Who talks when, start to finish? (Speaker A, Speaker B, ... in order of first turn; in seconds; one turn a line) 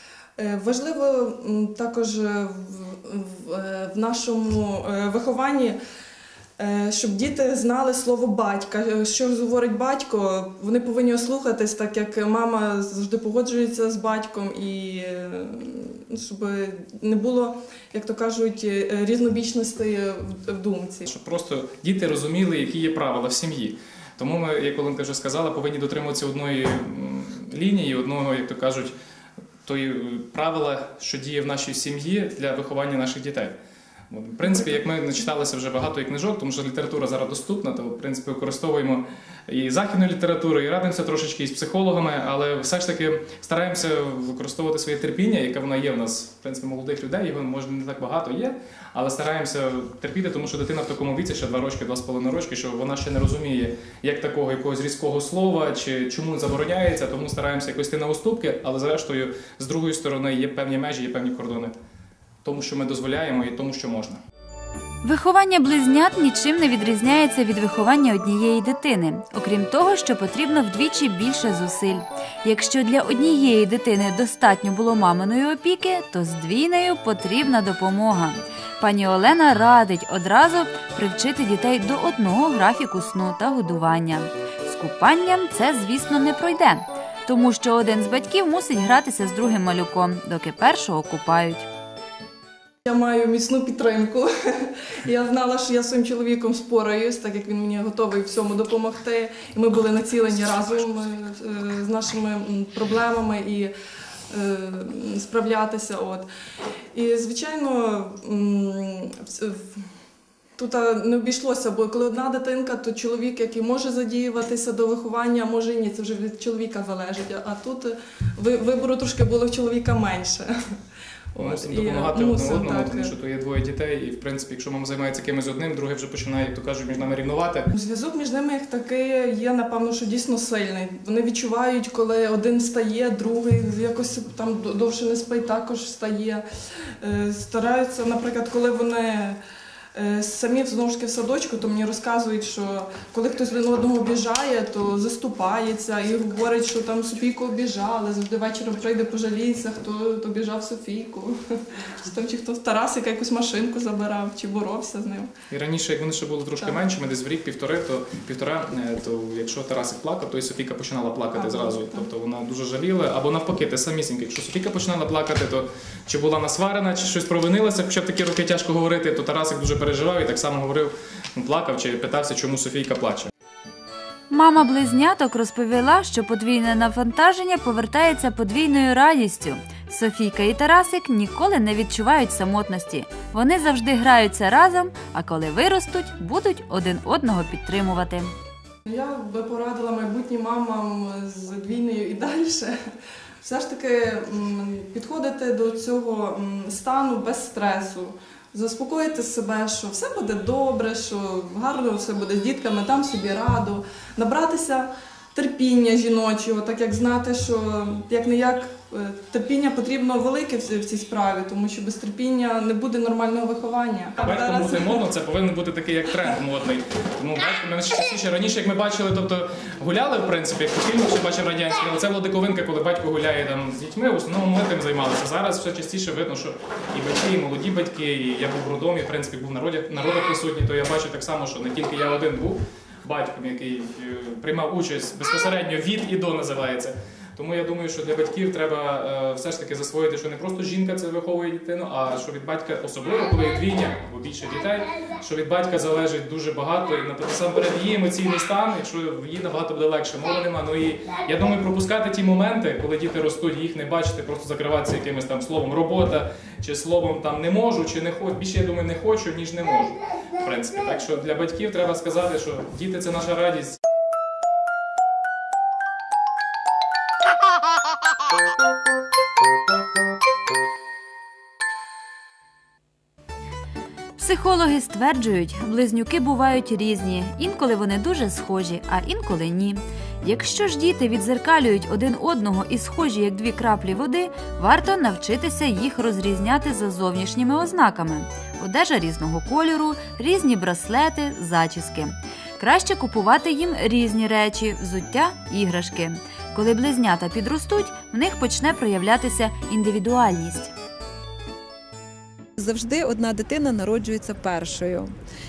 Speaker A: 0.4-5.8
Speaker A: 6.6-21.0
Speaker B: 21.0-28.9
Speaker B: 29.6-33.5
Speaker B: 34.1-61.7
Speaker B: 62.4-64.2
Speaker C: 65.0-91.7
Speaker A: 92.8-103.7
Speaker A: 104.3-106.3
Speaker A: 106.9-109.8
Speaker A: 110.6-120.5
Speaker A: 121.3-123.1
Speaker B: 121.3-127.7
Speaker A: 127.8-136.4
Speaker A: 137.0-139.4
Speaker A: 139.9-155.3
Speaker B: 155.5-173.3
Speaker A: 161.3-162.1
Speaker C: 174.3-188.3
Speaker A: 188.8-192.7
Speaker A: 193.4-215.0
Speaker B: 214.2-263.8
Speaker C: 274.2-300.7
Speaker D: 302.6-305.1